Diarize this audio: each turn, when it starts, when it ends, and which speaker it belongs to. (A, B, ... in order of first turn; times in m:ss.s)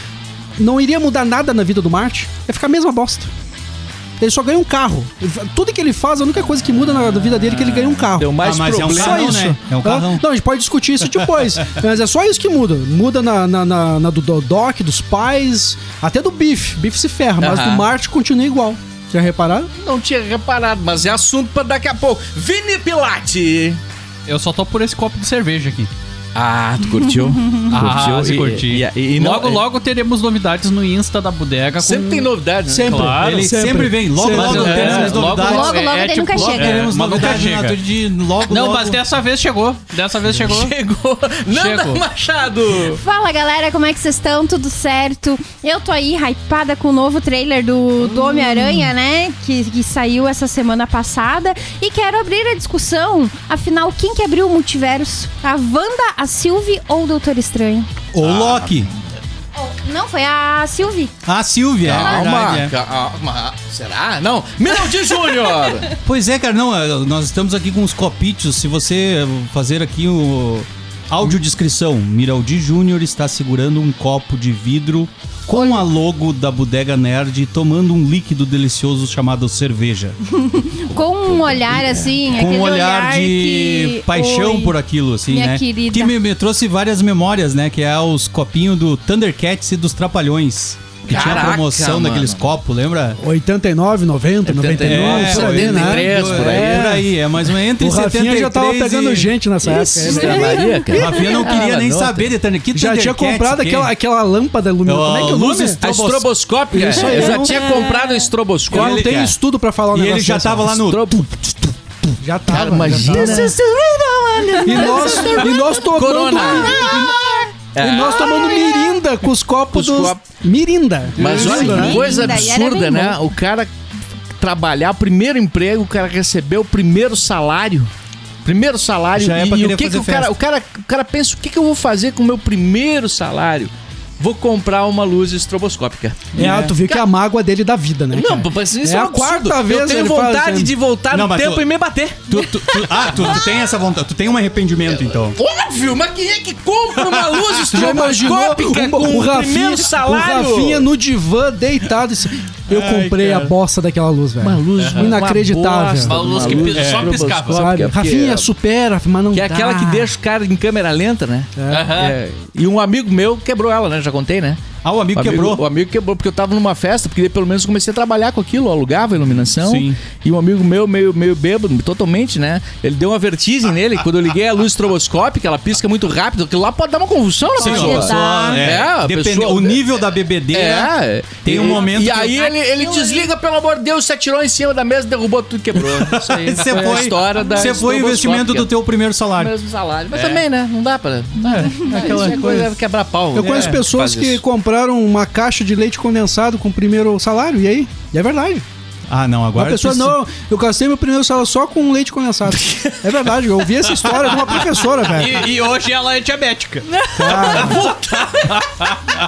0:00.6-0:03.3 A
0:04.2-0:19.7 A
0:07.8-0:09.5 B
0:08.4-0:10.2 C
0:17.4-0:17.9 B
0:19.8-0:23.8 B
0:24.3-0:25.9 D
0:26.4-0:29.7 B
0:27.1-0:27.7 E
0:27.7-0:32.2 D
0:31.8-0:33.1 B
0:31.8-0:35.3 A
0:32.8-0:33.5 D
0:33.0-0:39.0 C
0:34.3-0:37.8 D
0:34.4-0:35.2 B
0:35.4-0:37.0 E
0:38.5-0:40.7 D
0:40.3-0:43.0 B
0:41.5-0:42.0 D
0:42.9-0:57.9 E
0:58.1-0:58.9 C
0:58.2-0:58.9 B
0:59.6-1:01.1 E
1:01.3-1:02.7 C
1:01.8-1:06.0 B
1:06.0-1:20.2 C
1:20.4-1:24.8 E
1:22.3-1:33.2 C
1:25.3-1:26.1 E
1:31.1-1:32.4 B
1:33.2-1:37.1 A
1:34.4-1:37.0 B
1:34.8-1:39.3 C
1:37.8-1:41.4 A
1:39.6-1:42.3 B
1:40.2-1:40.9 E
1:40.9-1:43.9 C
1:42.7-1:45.8 A
1:44.8-1:46.3 C
1:45.3-1:49.1 B
1:46.7-1:47.8 A
1:47.2-1:48.3 E
1:48.7-1:50.8 A
1:48.7-1:49.4 C
1:49.9-1:51.7 C
1:50.8-1:51.3 B
1:52.2-1:53.6 A
1:52.5-1:53.6 B
1:53.1-1:57.5 E
1:54.5-1:57.2 A
1:54.8-1:56.8 B
1:57.8-1:58.7 B
1:57.8-2:02.5 A
1:58.3-1:58.9 E
1:59.7-2:00.2 B
2:01.2-2:03.7 B
2:01.2-2:03.2 E
2:04.4-2:07.9 B
2:08.4-2:17.1 B
2:09.2-2:10.4 C
2:16.4-2:20.7 A
2:16.4-2:16.8 C
2:18.1-2:23.5 B
2:21.1-2:21.7 C
2:22.3-2:25.4 C
2:25.0-2:30.9 B
2:27.1-2:27.9 C
2:27.7-2:36.6 A
2:32.8-2:33.4 D
2:34.4-2:38.5 B
2:34.8-2:35.2 D
2:36.0-2:37.6 D
2:36.7-2:37.1 C
2:37.4-2:40.1 A
2:39.3-2:44.6 B
2:41.6-2:42.0 A
2:41.7-2:42.2 D
2:44.8-2:45.6 C
2:45.2-2:59.9 B
2:49.6-2:50.0 C
2:57.6-3:02.5 C
2:57.6-2:58.6 E
3:00.5-3:08.7 B
3:01.7-3:03.3 E
3:05.8-3:09.5 C
3:09.4-3:14.4 B
3:10.1-3:10.4 D
3:11.5-3:11.8 D
3:11.8-3:12.7 C
3:13.3-3:18.6 A
3:13.4-3:13.7 D
3:19.1-3:20.2 C
3:19.6-3:25.4 A
3:22.6-3:23.0 B
3:25.0-3:27.6 D
3:27.2-3:28.0 A
3:27.2-3:28.9 B
3:28.5-3:29.0 D